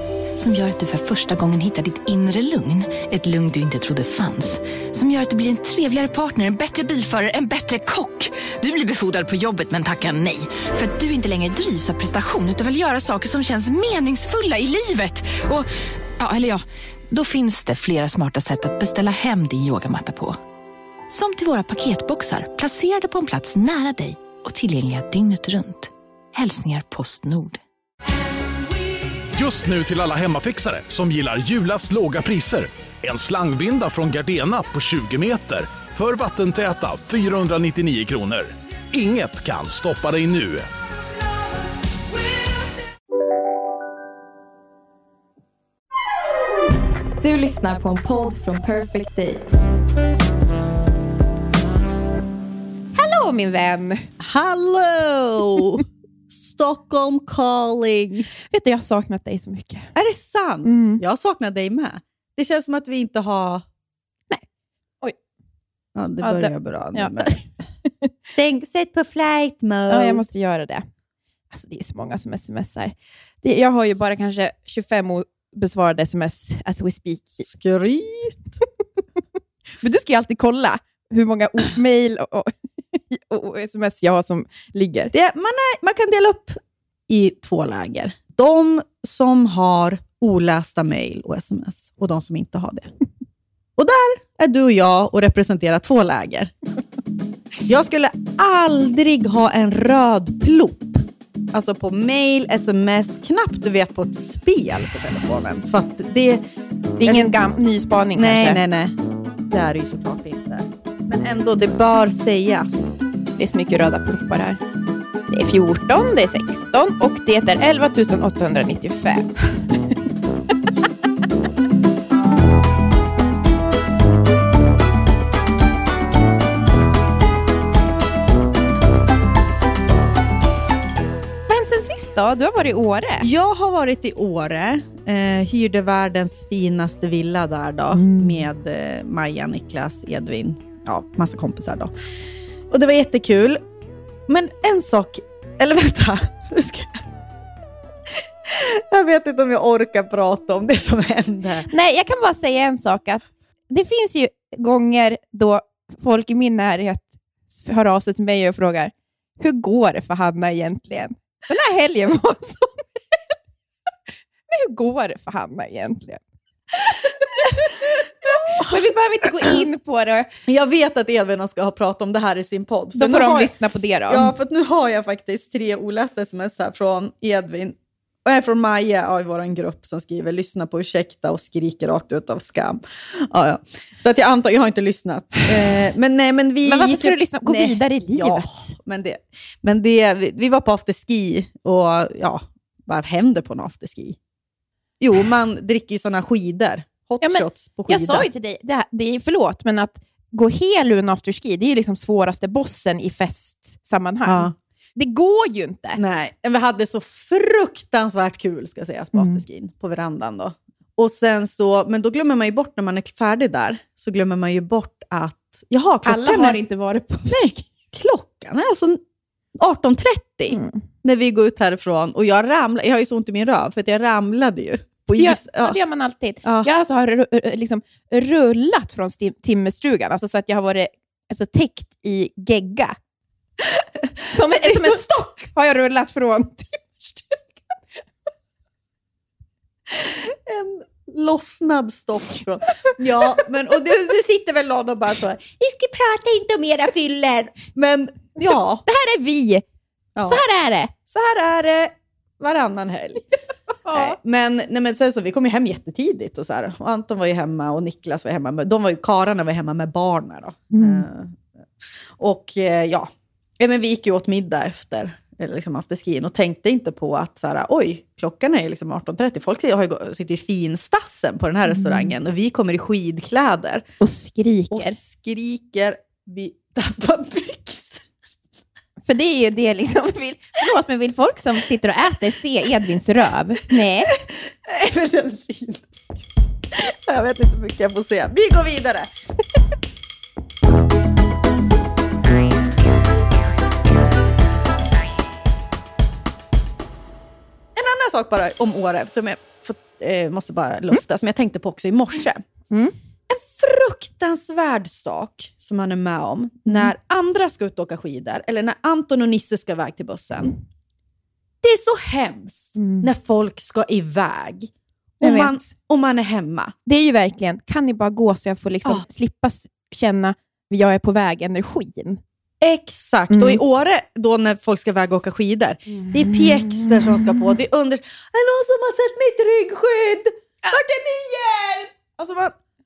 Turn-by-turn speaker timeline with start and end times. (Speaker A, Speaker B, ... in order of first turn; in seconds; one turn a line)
Speaker A: 0.4-15.7
Speaker A: 16.2-20.4
Speaker A: 21.1-27.6
Speaker B: 29.3-40.6
Speaker C: 47.2-49.4
Speaker D: 53.0-54.1
Speaker E: 54.2-58.3
Speaker D: 58.5-59.9
Speaker E: 60.0-63.6
Speaker D: 60.6-61.0
Speaker E: 66.0-67.4
Speaker D: 66.2-68.1
Speaker E: 68.3-70.3
Speaker D: 69.9-70.9
Speaker D: 71.5-77.4
Speaker E: 77.4-78.6
Speaker D: 79.8-85.1
Speaker E: 85.1-86.6
Speaker E: 87.1-92.9
Speaker E: 93.8-96.5
Speaker E: 97.7-101.0
Speaker E: 101.5-106.4
Speaker E: 107.0-107.3
Speaker D: 107.0-108.6
Speaker E: 108.2-109.0
Speaker E: 109.5-112.9
Speaker D: 113.4-114.6
Speaker D: 115.3-119.3
Speaker D: 131.5-133.3
Speaker E: 133.2-141.9
Speaker D: 137.9-138.4
Speaker E: 142.7-143.6
Speaker E: 144.3-147.0
Speaker E: 148.5-151.7
Speaker D: 151.7-163.0
Speaker D: 164.5-166.2
Speaker D: 166.8-170.3
Speaker E: 170.5-173.5
Speaker D: 172.9-174.3
Speaker E: 174.1-194.2
Speaker D: 186.7-188.7
Speaker E: 195.0-198.3
Speaker D: 197.2-206.0
Speaker E: 204.2-204.5
Speaker E: 206.0-216.6
Speaker D: 209.1-209.4
Speaker D: 216.0-217.6
Speaker E: 217.3-219.0
Speaker E: 219.6-225.8
Speaker D: 220.5-220.8
Speaker D: 225.2-233.0
Speaker E: 226.4-226.7
Speaker E: 234.0-235.0
Speaker D: 234.3-237.4
Speaker E: 239.9-248.8
Speaker D: 248.4-249.6
Speaker E: 250.2-250.4
Speaker D: 250.2-250.9
Speaker E: 251.1-253.2
Speaker D: 253.9-254.2
Speaker E: 253.9-261.4
Speaker D: 260.7-261.1
Speaker E: 262.2-263.1
Speaker E: 263.6-273.8
Speaker D: 271.7-272.1
Speaker D: 274.0-275.0
Speaker E: 274.7-278.0
Speaker D: 279.1-284.1
Speaker E: 284.1-286.2
Speaker E: 286.7-289.1
Speaker E: 297.8-302.4
Speaker D: 302.7-302.9
Speaker E: 303.3-310.6
Speaker E: 311.6-316.7
Speaker D: 312.8-313.1
Speaker D: 315.2-315.6
Speaker D: 316.9-322.2
Speaker E: 322.6-332.5
Speaker D: 323.3-323.6
Speaker D: 326.1-327.4